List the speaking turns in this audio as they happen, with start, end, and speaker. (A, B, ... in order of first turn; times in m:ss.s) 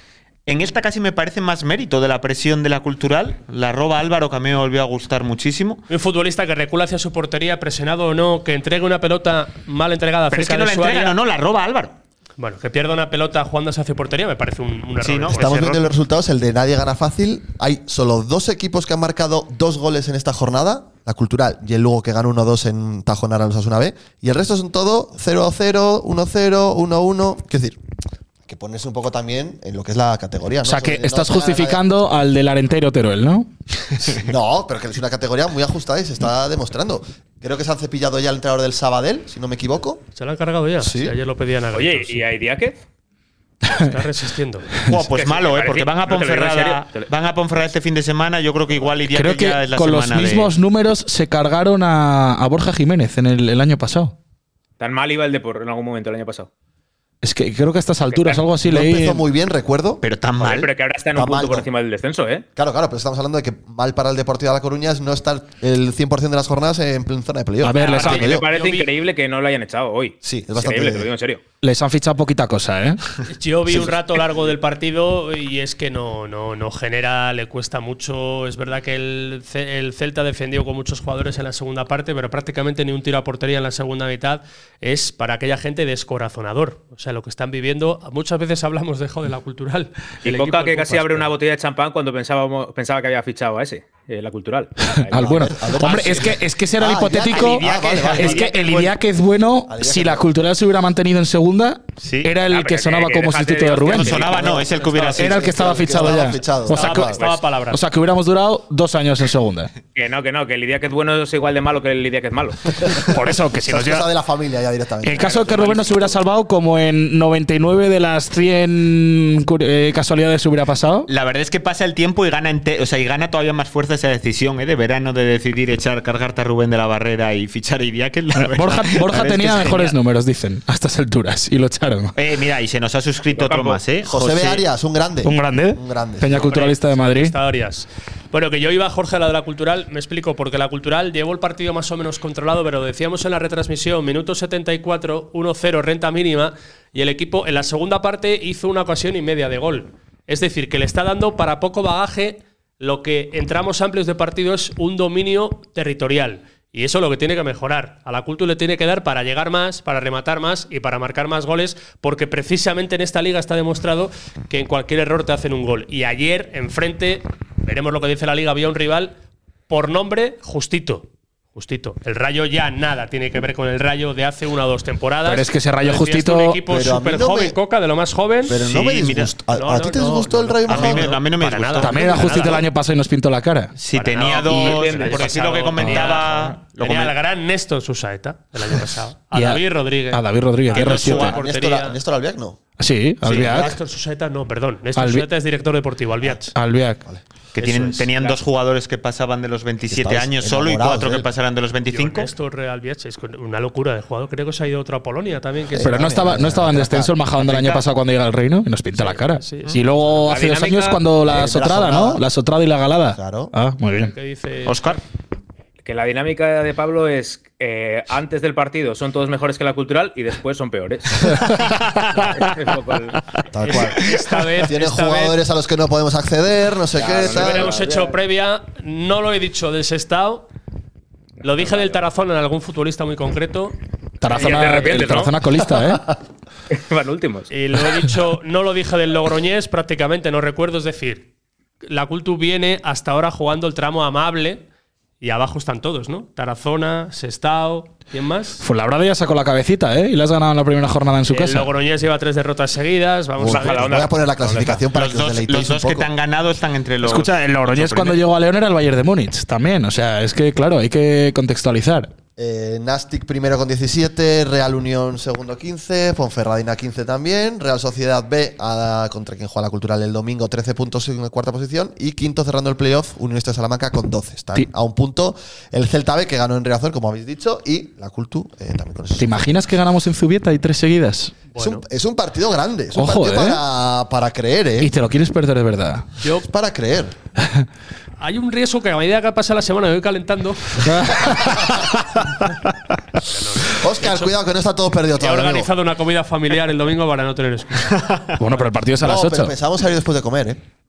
0:00.5-0:05.8 A
0:05.9-0:11.2 B
0:10.3-0:11.9 A
0:12.4-0:15.9 B
0:15.0-0:15.5 A
0:15.3-0:27.8 C
0:28.5-0:31.8 C
0:30.6-0:33.5 D
0:34.2-0:40.0 C
0:40.2-0:42.2 B
0:40.8-0:41.2 C
0:41.7-0:42.8 E
0:43.7-0:44.7 B
0:44.9-0:50.5 A
0:45.1-0:47.1 E
0:49.1-0:54.1 D
0:54.8-0:56.5 E
0:57.2-0:59.2 D
0:58.1-0:58.5 E
0:58.6-1:00.0 C
1:00.0-1:00.7 A
1:00.4-1:02.5 E
1:01.2-1:01.7 C
1:02.6-1:08.5 C
1:07.6-1:08.4 D
1:07.8-1:11.4 E
1:07.8-1:08.9 B
1:10.2-1:11.1 C
1:11.6-1:13.0 D
1:13.3-1:31.3 B
1:30.2-1:36.2 E
1:35.0-1:44.4 D
1:35.1-1:38.5 C
1:37.3-1:38.9 A
1:39.7-1:40.3 C
1:42.0-1:42.3 A
1:42.4-1:46.1 E
1:43.8-1:45.5 A
1:44.8-1:45.2 B
1:45.2-1:49.7 D
1:45.2-1:47.2 C
1:46.7-1:47.8 B
1:49.9-1:52.6 E
1:53.1-1:54.1 D
1:53.7-1:55.8 C
1:55.0-2:01.1 D
1:55.2-1:56.2 E
2:01.1-2:10.0 A
2:08.4-2:12.1 D
2:12.2-2:14.6 A
2:13.3-2:13.8 E
2:14.0-2:16.5 C
2:15.2-2:17.4 D
2:16.4-2:49.2 B
2:49.7-2:58.6 B
2:55.2-2:56.6 D
2:56.7-2:57.6 C
2:58.5-3:01.2 C
2:58.5-2:59.3 A
2:59.5-3:02.6 B
3:00.7-3:02.6 A
3:01.8-3:03.7 D
3:03.8-3:07.2 A
3:03.9-3:12.0 B
3:04.2-3:06.2 E
3:05.8-3:06.2 D
3:09.3-3:11.4 D
3:10.8-3:12.6 C
3:12.8-3:13.8 D
3:13.2-3:16.5 B
3:15.0-3:15.3 D
3:16.6-3:17.0 D
3:17.6-3:22.3 A
3:17.6-3:18.4 B
3:19.9-3:21.3 C
3:21.9-3:26.1 B
3:25.7-3:27.2 C
3:25.8-3:34.1 D
3:27.4-3:27.8 A
3:29.0-3:30.3 B
3:30.2-3:31.2 E
3:31.2-3:32.2 C
3:33.1-3:33.5 C
3:34.0-3:35.0 B
3:34.7-3:35.0 A
3:35.8-3:41.5 E
3:41.3-3:42.3 D
3:42.4-3:43.2 E
3:43.5-3:47.7 C
3:43.6-3:45.4 B
3:46.9-3:48.2 E
3:47.2-3:50.5 B
3:51.4-3:53.8 B
3:51.5-3:52.0 E
3:54.2-3:56.1 D
3:54.3-3:55.4 E
3:54.3-3:55.0 B
3:56.7-3:57.5 E
3:57.5-4:01.3 B
4:01.8-4:04.6 B
4:05.2-4:08.6 B
4:08.6-4:11.7 D
4:11.3-4:13.9 B
4:13.4-4:16.1 C
4:13.4-4:14.8 E
4:14.9-4:18.2 A
4:17.0-4:22.1 D
4:22.4-4:39.6 C
4:39.2-4:41.4 D
4:41.5-4:41.8 B
4:41.6-4:44.9 C
4:43.0-4:43.6 D
4:44.8-4:46.1 D
4:46.4-4:47.2 C
4:48.2-4:50.9 B
4:50.8-4:51.9 D
4:53.2-4:54.3 B
4:53.7-4:55.7 C
4:55.2-4:58.0 B
4:58.4-4:59.5 D
4:59.0-5:00.6 C